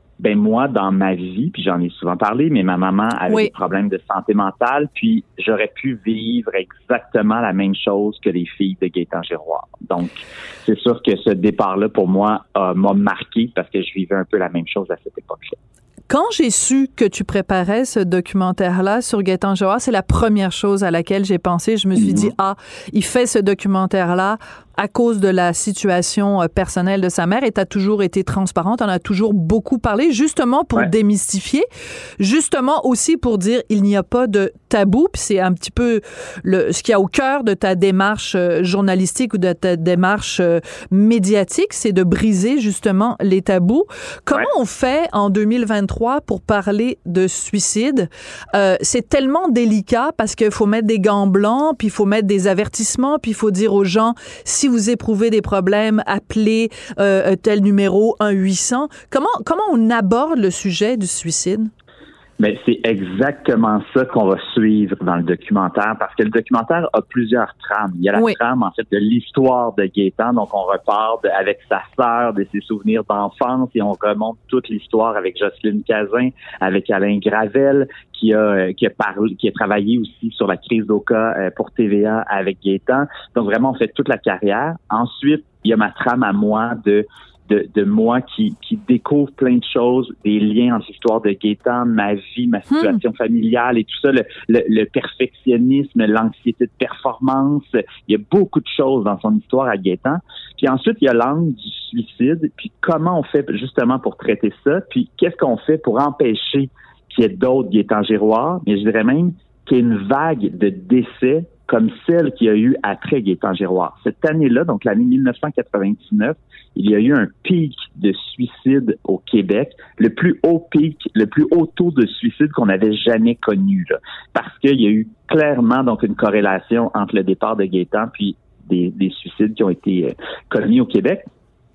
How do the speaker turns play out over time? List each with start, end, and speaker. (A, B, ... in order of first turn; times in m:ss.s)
0:00.2-0:15.6 A
0:16.1-0:31.7 B
0:22.0-0:22.3 A
0:32.2-1:01.7 B
1:02.4-2:11.2 A
1:32.7-1:33.0 B